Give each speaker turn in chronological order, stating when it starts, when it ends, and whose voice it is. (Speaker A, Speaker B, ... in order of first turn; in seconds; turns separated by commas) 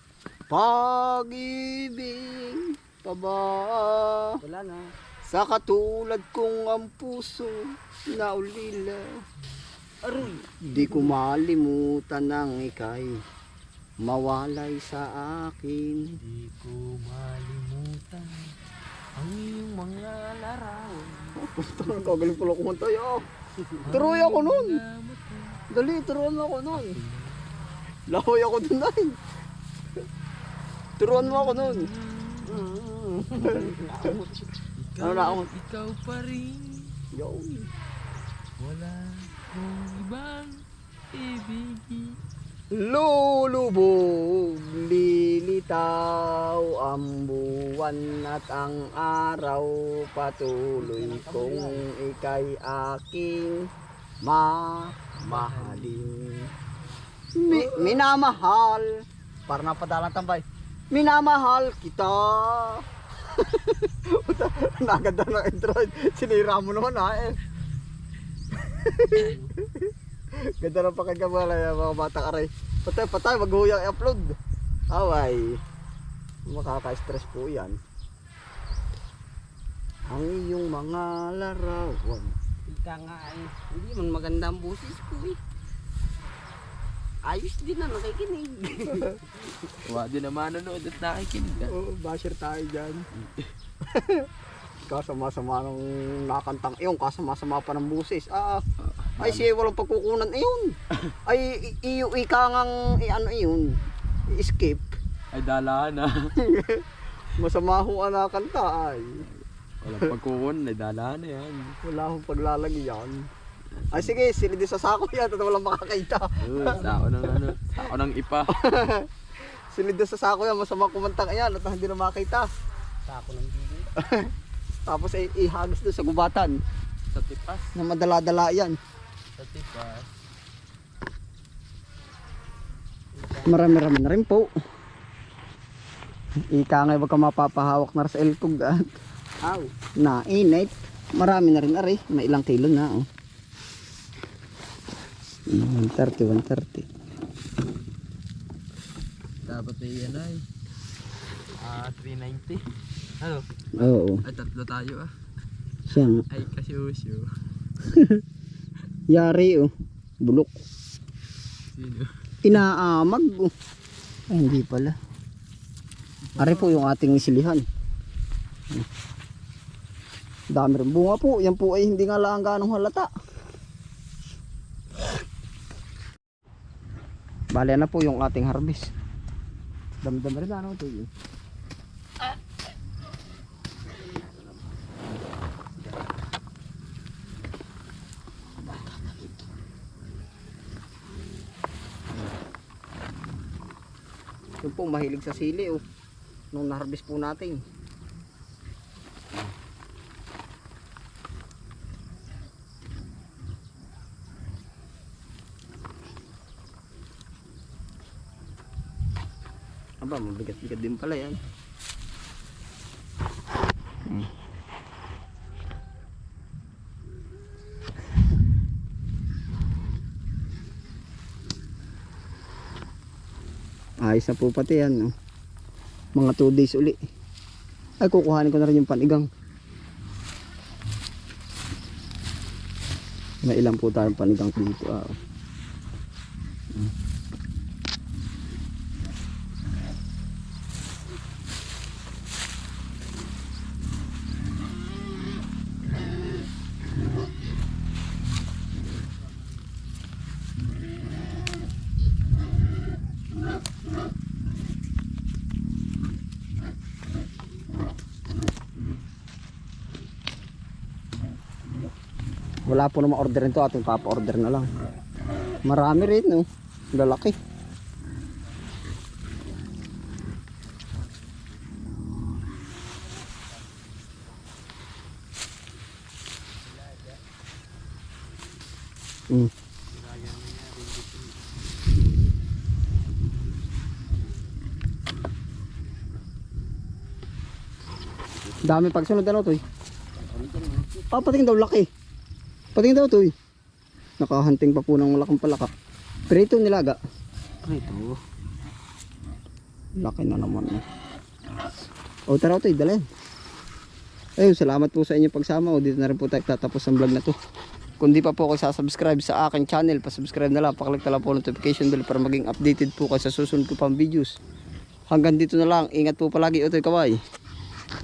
Speaker A: 0.5-4.3, Speaker B: 4.4-4.9, Speaker A: 5.2-9.0, Speaker B: 10.0-11.1, Speaker A: 10.6-13.1, Speaker A: 14.0-16.2, Speaker C: 16.2-18.3, Speaker C: 19.1-21.4, Speaker A: 21.4-23.2, Speaker B: 23.6-23.9, Speaker C: 23.8-25.6, Speaker A: 23.9-24.8, Speaker A: 25.7-27.0, Speaker C: 26.7-27.5, Speaker A: 28.1-29.1, Speaker A: 31.0-31.9, Speaker C: 31.0-32.6, Speaker B: 32.4-34.2, Speaker A: 33.4-34.3, Speaker C: 34.8-36.9, Speaker A: 35.0-35.5, Speaker A: 37.1-37.7, Speaker C: 38.6-40.5, Speaker C: 41.1-42.2, Speaker A: 42.7-53.6, Speaker B: 50.8-51.8, Speaker A: 54.2-56.4, Speaker C: 55.2-56.2, Speaker A: 57.3-58.9, Speaker C: 57.5-58.0, Speaker A: 59.5-67.3, Speaker A: 68.6-69.9, Speaker C: 69.1-69.5, Speaker A: 70.6-74.3, Speaker A: 74.9-75.5, Speaker A: 76.5-77.8, Speaker A: 80.1-82.3, Speaker B: 82.7-85.4, Speaker B: 87.2-89.7, Speaker C: 89.8-91.7, Speaker A: 91.7-93.0, Speaker A: 93.9-94.3, Speaker A: 94.9-98.6, Speaker C: 98.9-99.5, Speaker A: 99.2-100.7, Speaker A: 101.3-103.7, Speaker A: 104.3-105.0, Speaker C: 105.3-106.3, Speaker A: 106.4-106.8, Speaker A: 107.4-109.2, Speaker C: 109.2-111.7, Speaker A: 111.8-113.2, Speaker C: 113.7-114.2, Speaker A: 113.9-116.8, Speaker C: 116.4-118.5, Speaker A: 118.5-119.0, Speaker A: 119.7-122.5, Speaker B: 123.0-123.9, Speaker A: 124.0-124.3, Speaker A: 124.9-126.6, Speaker C: 127.1-127.7, Speaker A: 127.7-128.8, Speaker C: 129.3-130.1, Speaker B: 133.1-133.8, Speaker A: 133.4-134.5, Speaker A: 136.5-138.8, Speaker B: 139.4-139.7, Speaker A: 140.0-143.1, Speaker A: 145.5-146.9, Speaker C: 149.4-150.4, Speaker C: 151.6-152.6, Speaker C: 153.2-153.4, Speaker A: 153.8-154.2, Speaker C: 154.2-155.1, Speaker A: 155.9-156.2, Speaker C: 156.3-157.3, Speaker A: 157.9-158.2, Speaker A: 159.1-159.7, Speaker A: 160.2-160.5, Speaker C: 161.7-162.1, Speaker A: 162.4-163.5, Speaker A: 164.3-164.9, Speaker C: 166.3-166.8, Speaker A: 166.4-167.6, Speaker A: 170.5-173.1, Speaker A: 177.5-178.9, Speaker A: 180.0-181.1, Speaker A: 194.6-195.8, Speaker A: 196.5-197.6, Speaker A: 210.0-211.4, Speaker A: 224.0-225.1, Speaker A: 226.2-227.0, Speaker A: 228.0-229.3, Speaker A: 233.4-235.1, Speaker A: 262.7-264.7, Speaker A: 265.6-267.4, Speaker C: 276.6-277.2, Speaker C: 279.9-281.4, Speaker A: 288.6-289.6, Speaker B: 290.3-291.3, Speaker A: 291.1-291.9, Speaker A: 292.7-293.3, Speaker A: 294.2-295.7, Speaker A: 296.3-297.0, Speaker B: 297.6-298.2, Speaker A: 300.0-300.8, Speaker A: 302.3-303.0, Speaker A: 304.4-307.3, Speaker A: 308.0-314.3, Speaker A: 315.1-317.1